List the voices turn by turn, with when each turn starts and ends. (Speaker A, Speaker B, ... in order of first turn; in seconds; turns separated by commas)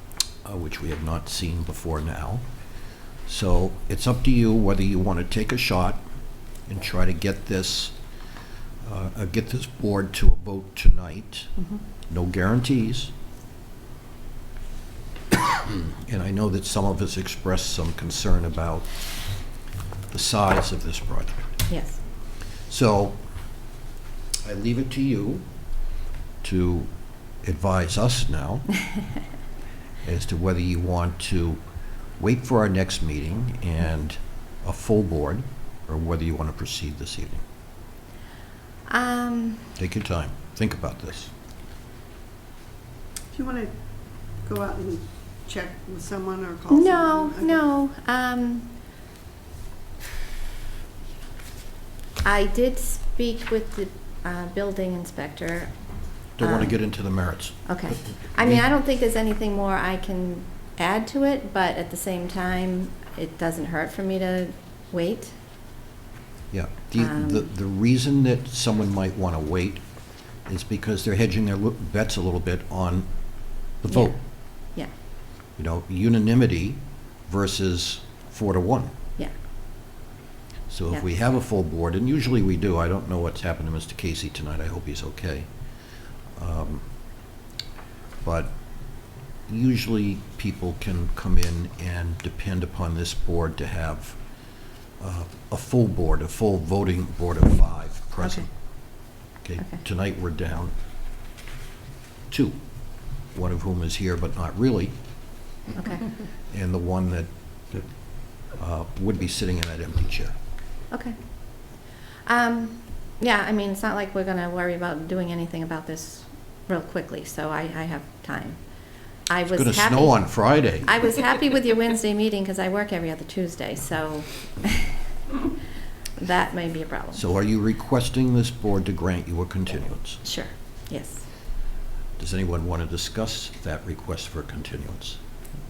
Speaker A: 0.4-2.4, Speaker A: 3.2-6.0, Speaker A: 6.7-7.9, Speaker A: 8.8-11.5, Speaker A: 12.1-13.1, Speaker A: 15.5-19.5, Speaker A: 20.1-21.6, Speaker B: 21.7-22.0, Speaker A: 22.7-23.5, Speaker A: 24.4-25.8, Speaker A: 26.4-28.9, Speaker A: 30.0-31.6, Speaker A: 32.2-37.4, Speaker B: 38.9-39.7, Speaker A: 39.8-41.3, Speaker C: 43.3-47.6, Speaker B: 46.7-48.7, Speaker B: 52.2-56.8, Speaker A: 56.4-58.6, Speaker B: 57.6-65.3, Speaker A: 66.5-69.8, Speaker B: 67.0-67.5, Speaker A: 70.4-74.2, Speaker B: 73.9-74.9, Speaker A: 75.6-78.9, Speaker A: 80.7-85.5, Speaker A: 86.3-86.9, Speaker A: 88.2-94.2, Speaker A: 95.0-98.5, Speaker B: 98.2-98.5, Speaker A: 99.4-100.7, Speaker A: 102.3-105.6, Speaker B: 105.8-106.0, Speaker A: 106.5-107.3, Speaker A: 108.5-110.3, Speaker B: 110.9-125.0, Speaker A: 119.5-121.0, Speaker B: 126.2-127.3, Speaker A: 127.1-130.2, Speaker B: 130.2-131.3, Speaker A: 132.2-135.2